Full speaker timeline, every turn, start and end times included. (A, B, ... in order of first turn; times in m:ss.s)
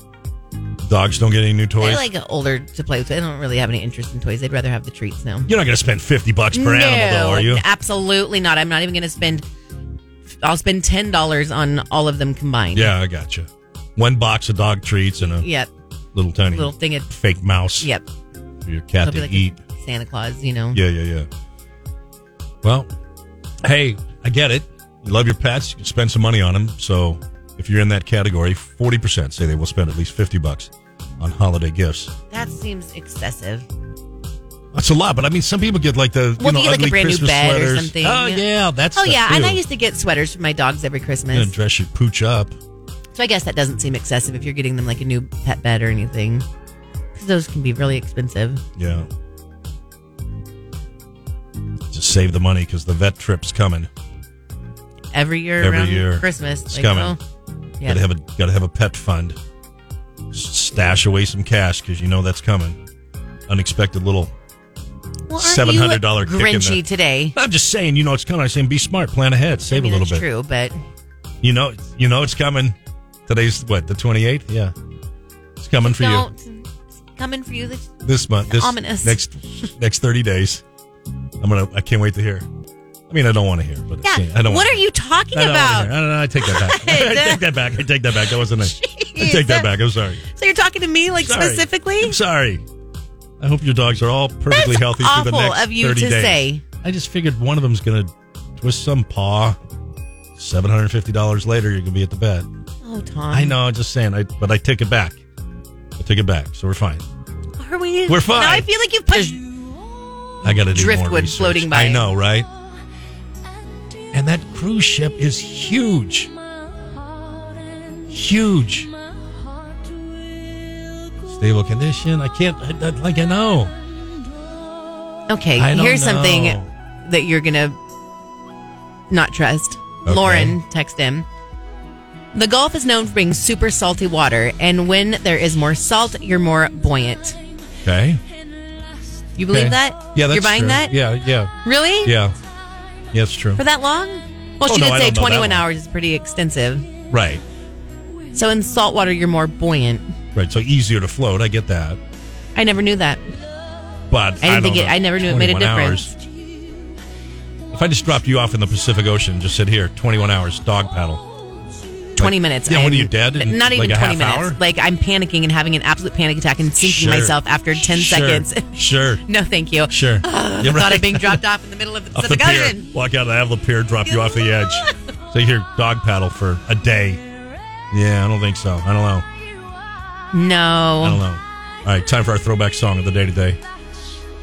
0:00.8-0:02.1 A
0:01.8-0:05.5 B
0:05.5-0:07.6 A
0:06.5-0:09.4 B
0:10.4-0:12.9 B
0:12.7-0:15.5 A
0:15.4-0:15.7 B
0:16.1-0:17.9 A
0:16.5-0:17.1 B
0:17.8-0:18.0 B
0:18.6-0:19.6 A
0:19.0-0:20.8 B
0:20.7-0:21.3 A
0:22.6-0:22.9 A
0:23.6-0:32.1 A
0:32.3-0:33.6 B
0:34.7-0:39.6 A
0:36.4-0:41.5 B
0:41.3-0:42.5 A
0:43.2-0:46.4 B
0:47.1-0:48.6 B
0:48.8-0:49.1 A
0:51.9-0:53.9 A
0:55.1-0:57.2 B
0:55.6-0:57.2 A
0:57.8-0:59.4 A
1:00.3-1:02.8 A
1:03.5-1:04.3 A
1:05.3-1:07.4 B
1:05.4-1:06.8 A
1:07.4-1:10.2 A
1:09.7-1:10.8 B
1:11.4-1:12.8 A
1:13.3-1:14.7 A
1:15.6-1:16.3 A
1:15.8-1:17.9 B
1:18.0-1:20.6 A
1:18.4-1:19.2 B
1:21.4-1:22.5 A
1:23.1-1:24.8 A
1:24.0-1:27.5 B
1:25.3-1:30.2 A
1:28.1-1:29.7 B
1:30.3-1:32.2 B
1:31.2-1:32.6 A
1:33.4-1:39.6 A
1:34.5-1:36.6 B
1:40.4-1:42.5 A
1:42.8-1:43.6 B
1:43.3-1:45.2 A
1:46.0-1:47.0 A
1:47.6-1:49.4 B
1:48.1-1:49.4 A
1:50.4-1:52.5 A
1:50.4-1:52.1 B
1:54.1-1:56.3 A
1:58.1-1:58.9 A
2:01.2-2:03.7 A
2:05.3-2:07.8 B
2:05.6-2:06.7 A
2:09.1-2:11.2 B
2:10.0-2:10.6 A
2:12.3-2:17.4 B
2:17.8-2:18.2 A
2:19.4-2:21.0 B
2:19.5-2:21.5 A
2:21.6-2:22.2 B
2:22.0-2:22.4 A
2:23.1-2:23.6 A
2:23.6-2:26.9 B
2:24.6-2:25.6 A
2:27.1-2:27.4 A
2:28.3-2:30.1 B
2:30.3-2:32.0 A
2:32.5-2:33.3 B
2:34.1-2:36.2 A
2:34.4-2:36.1 B
2:37.7-2:41.2 A
2:42.1-2:48.7 B
2:42.2-2:44.6 A
2:46.8-2:49.2 A
2:49.2-2:52.9 B
2:49.9-2:51.4 A
2:52.1-2:57.2 A
2:54.1-2:54.9 B
2:57.9-2:59.2 A
3:00.3-3:01.2 B
3:01.0-3:03.6 A